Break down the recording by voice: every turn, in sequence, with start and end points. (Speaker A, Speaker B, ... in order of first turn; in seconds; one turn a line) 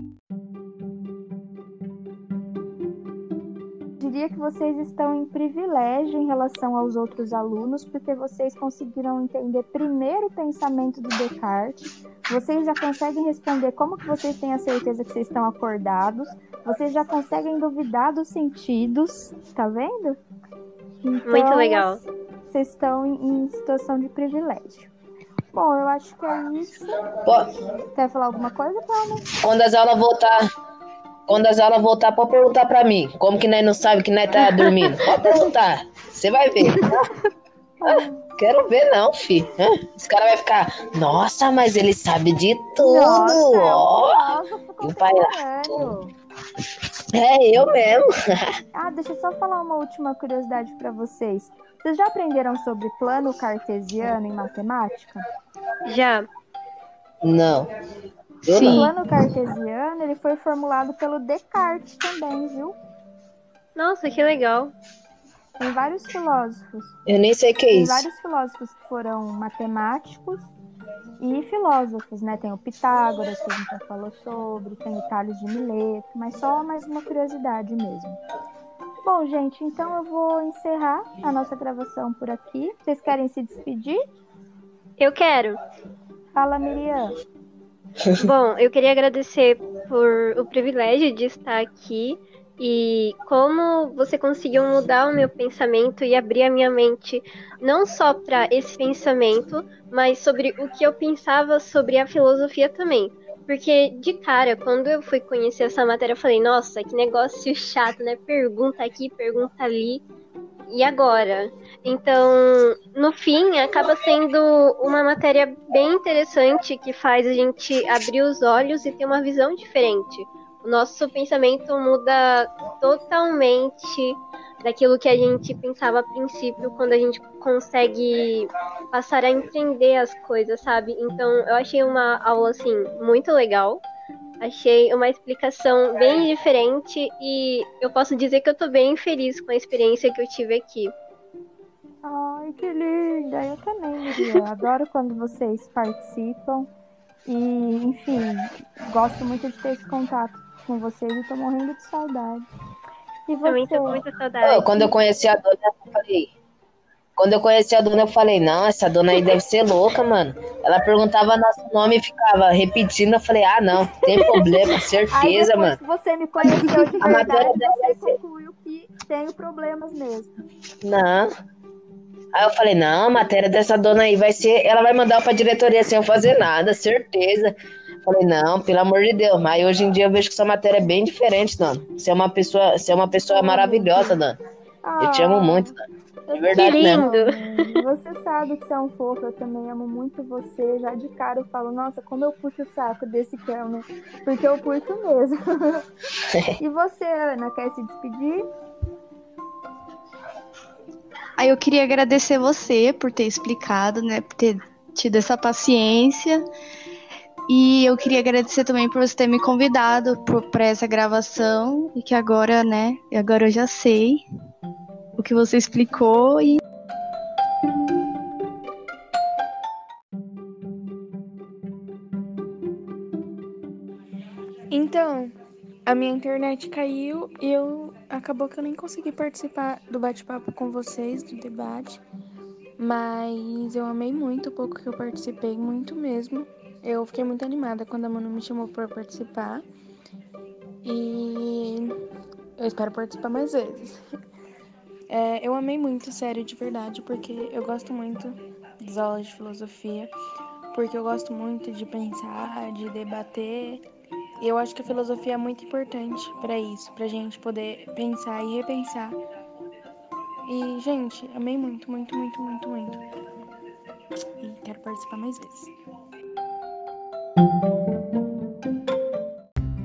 Speaker A: 4.0-20.2
Speaker A: 21.0-24.9
Speaker B: 21.3-22.0
Speaker A: 25.5-26.9
Speaker A: 27.9-29.3
Speaker C: 29.4-30.5
Speaker C: 31.3-37.1
Speaker A: 37.8-38.4
Speaker C: 37.8-45.9
Speaker A: 42.8-46.1
Speaker C: 47.1-48.5
Speaker A: 48.7-55.2
Speaker B: 55.8-56.3
Speaker C: 57.2-57.7
Speaker C: 58.5-58.9
Speaker D: 58.5-58.9
Speaker A: 58.5-62.8
Speaker B: 63.8-64.7
Speaker A: 65.6-67.0
Speaker C: 67.1-68.0
Speaker A: 67.7-70.5
Speaker A: 71.2-78.2
Speaker A: 79.0-84.0
Speaker B: 85.0-85.6
Speaker A: 86.3-87.2
Speaker B: 88.1-110.0
Speaker B: 110.7-133.8
Speaker B: 134.4-140.9
Speaker A: 142.0-146.7
Speaker A: 147.2-152.5
Speaker A: 153.3-154.0
Speaker B: 153.4-154.9
Speaker C: 154.4-156.3
Speaker C: 157.2-165.8
Speaker A: 164.1-170.3
Speaker C: 167.0-168.2
Speaker C: 170.8-171.3
Speaker C: 172.3-177.5
Speaker C: 178.0-184.4
Speaker A: 183.3-184.2
Speaker A: 184.8-185.7
Speaker C: 185.0-185.7
Speaker A: 186.3-195.8
Speaker C: 186.3-187.0
Speaker B: 186.5-187.7
Speaker C: 196.3-196.6
Speaker A: 196.6-198.4
Speaker D: 201.4-206.4
Speaker D: 207.5-214.2
Speaker D: 215.2-216.6
Speaker E: 224.7-225.3
Speaker E: 225.9-232.0
Speaker E: 232.8-239.6
Speaker E: 240.8-242.0
Speaker E: 242.6-244.0
Speaker E: 245.1-250.1
Speaker E: 250.7-253.8
Speaker E: 254.4-259.2
Speaker E: 260.5-263.0
Speaker E: 264.4-265.7